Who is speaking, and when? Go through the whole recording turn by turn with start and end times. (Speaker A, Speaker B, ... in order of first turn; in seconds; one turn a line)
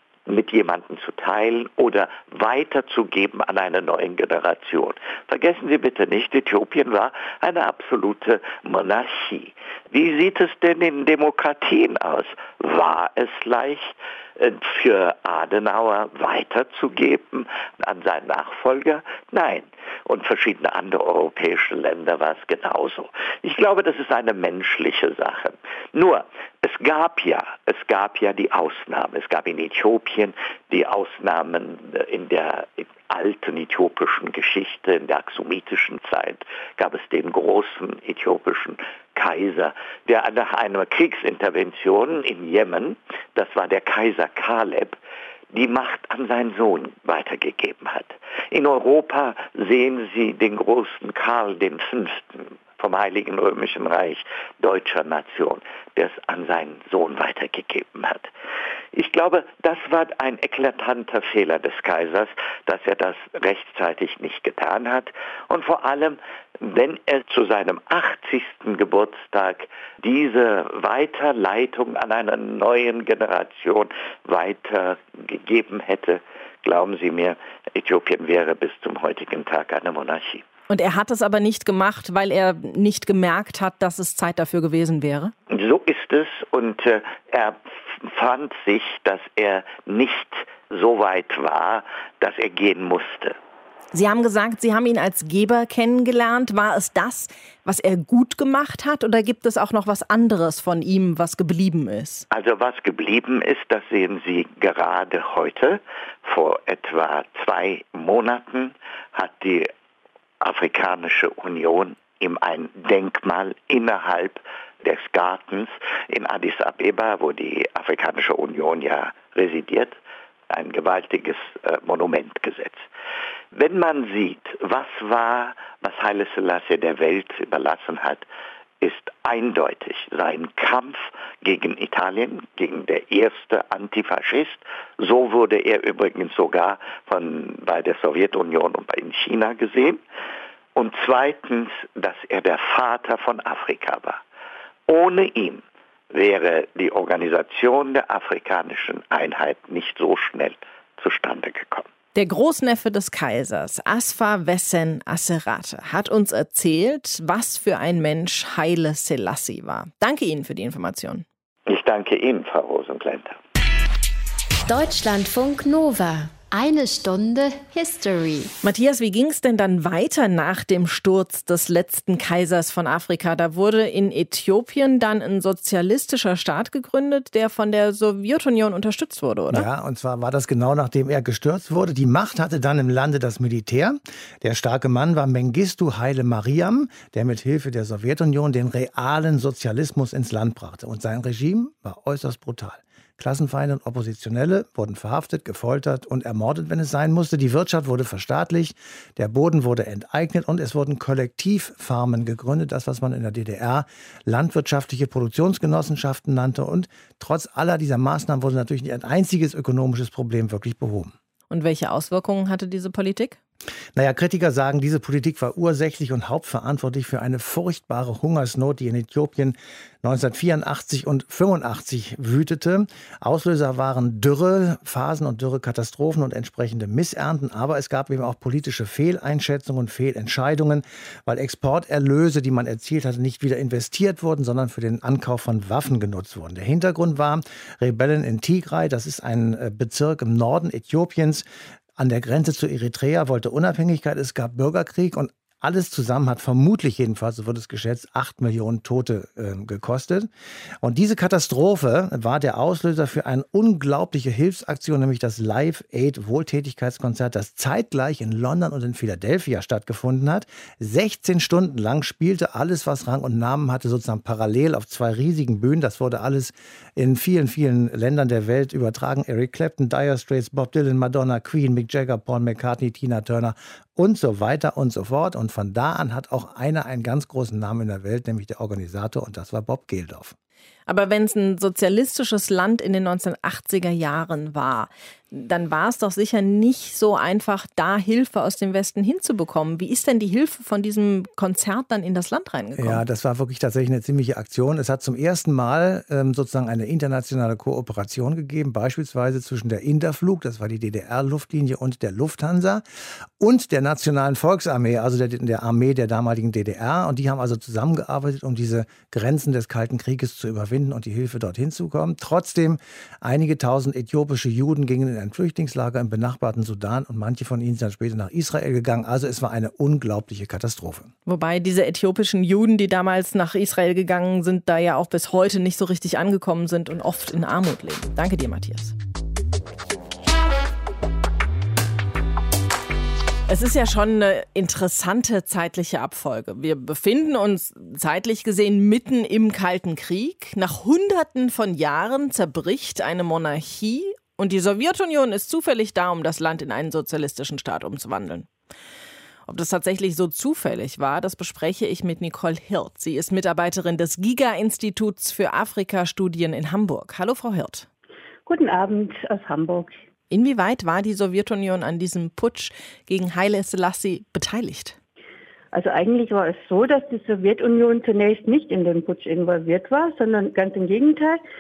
Speaker A: 0.3-45.0
Speaker A: 45.5-58.3
Speaker A: 58.9-80.5
Speaker B: 80.7-85.3
Speaker A: 85.5-93.4
Speaker B: 93.9-102.3
Speaker A: 102.3-109.7
Speaker A: 110.4-120.0
Speaker A: 120.5-122.9
Speaker A: 123.5-128.3
Speaker A: 128.8-140.0
Speaker A: 140.8-144.2
Speaker A: 144.9-151.9
Speaker B: 152.1-161.2
Speaker A: 161.7-163.4
Speaker C: 164.7-168.5
Speaker B: 168.6-179.7
Speaker D: 179.5-211.1
Speaker B: 211.5-213.4
Speaker D: 214.0-250.3
Speaker D: 250.8-280.4
Speaker B: 280.9-293.0
Speaker D: 292.8-302.8
Speaker D: 303.4-321.1
Speaker B: 321.3-328.9
Speaker B: 333.5-348.5
Speaker B: 349.5-357.9
Speaker E: 358.5-359.9
Speaker B: 360.3-365.0
Speaker E: 365.7-371.4